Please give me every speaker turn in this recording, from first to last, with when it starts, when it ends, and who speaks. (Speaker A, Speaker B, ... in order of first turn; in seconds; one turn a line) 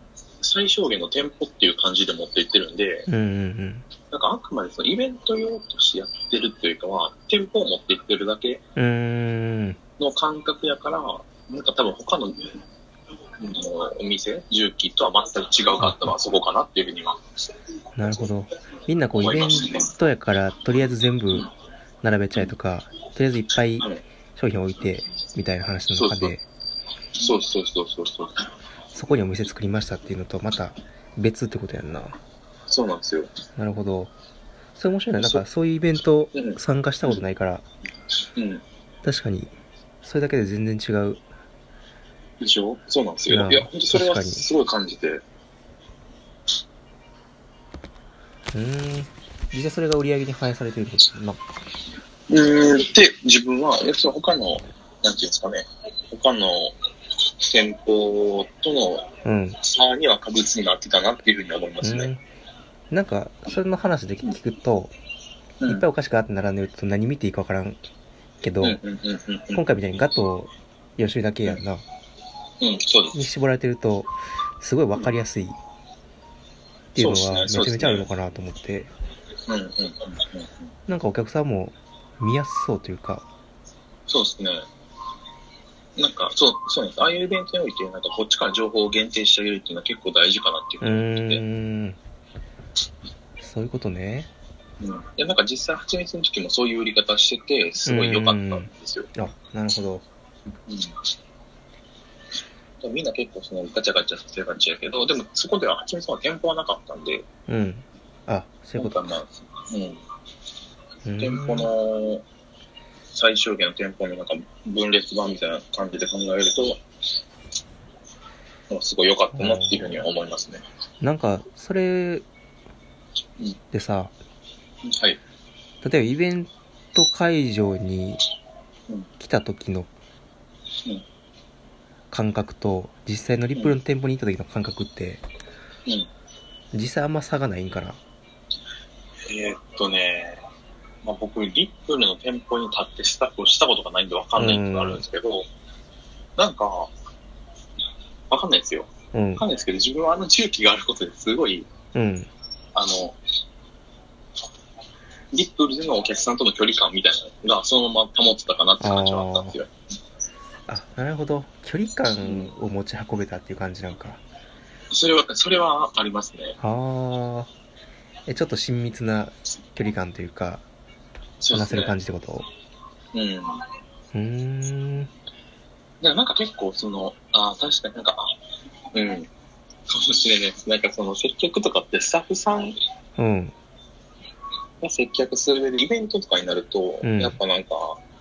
Speaker A: 0.4-3.1
Speaker B: 3.1-3.9
Speaker A: 4.1-8.6
Speaker B: 8.8-9.8
Speaker A: 10.0-12.6
Speaker A: 13.4-17.2
Speaker B: 15.8-16.1
Speaker B: 18.0-21.5
Speaker A: 19.2-19.9
Speaker B: 22.0-26.4
Speaker A: 25.9-26.3
Speaker A: 27.2-28.4
Speaker B: 28.9-32.2
Speaker A: 32.7-33.3
Speaker B: 33.6-34.1
Speaker B: 34.8-37.6
Speaker A: 35.2-35.4
Speaker A: 36.3-37.2
Speaker A: 38.4-38.6
Speaker B: 39.0-41.2
Speaker A: 42.4-45.2
Speaker B: 43.3-44.5
Speaker B: 48.5-51.4
Speaker A: 52.3-56.8
Speaker A: 57.4-62.1
Speaker B: 59.2-59.6
Speaker B: 61.8-62.2
Speaker B: 62.9-64.9
Speaker B: 65.7-67.8
Speaker B: 68.4-68.8
Speaker A: 68.6-69.6
Speaker B: 69.5-71.8
Speaker A: 72.6-73.2
Speaker B: 73.2-75.6
Speaker B: 77.0-78.9
Speaker A: 77.0-78.1
Speaker A: 79.5-80.7
Speaker B: 80.9-83.2
Speaker A: 84.1-84.7
Speaker A: 86.0-91.4
Speaker B: 90.8-92.0
Speaker B: 93.4-94.3
Speaker A: 94.8-99.1
Speaker B: 97.9-100.0
Speaker A: 100.7-101.0
Speaker A: 102.8-107.3
Speaker B: 107.5-109.2
Speaker A: 108.8-110.0
Speaker B: 111.0-111.7
Speaker A: 111.2-112.2
Speaker A: 113.1-116.8
Speaker A: 118.7-120.6
Speaker B: 119.3-120.0
Speaker B: 121.0-122.3
Speaker B: 123.7-124.1
Speaker A: 124.8-125.2
Speaker B: 125.8-128.2
Speaker B: 129.2-129.9
Speaker B: 132.1-135.2
Speaker B: 136.7-138.0
Speaker A: 139.3-140.4
Speaker A: 141.0-145.5
Speaker B: 144.4-145.0
Speaker A: 146.4-146.9
Speaker A: 148.3-151.7
Speaker B: 149.1-149.4
Speaker B: 151.9-152.3
Speaker A: 152.8-153.2
Speaker A: 155.3-159.7
Speaker B: 158.8-159.6
Speaker B: 160.7-164.2
Speaker A: 162.2-162.5
Speaker A: 164.9-166.6
Speaker B: 166.6-167.5
Speaker B: 168.3-170.7
Speaker A: 171.4-172.0
Speaker B: 171.5-172.5
Speaker A: 173.1-173.6
Speaker B: 174.1-175.1
Speaker A: 176.0-178.4
Speaker A: 178.9-179.3
Speaker A: 179.9-182.8
Speaker B: 183.2-183.6
Speaker A: 184.8-188.0
Speaker B: 187.0-187.4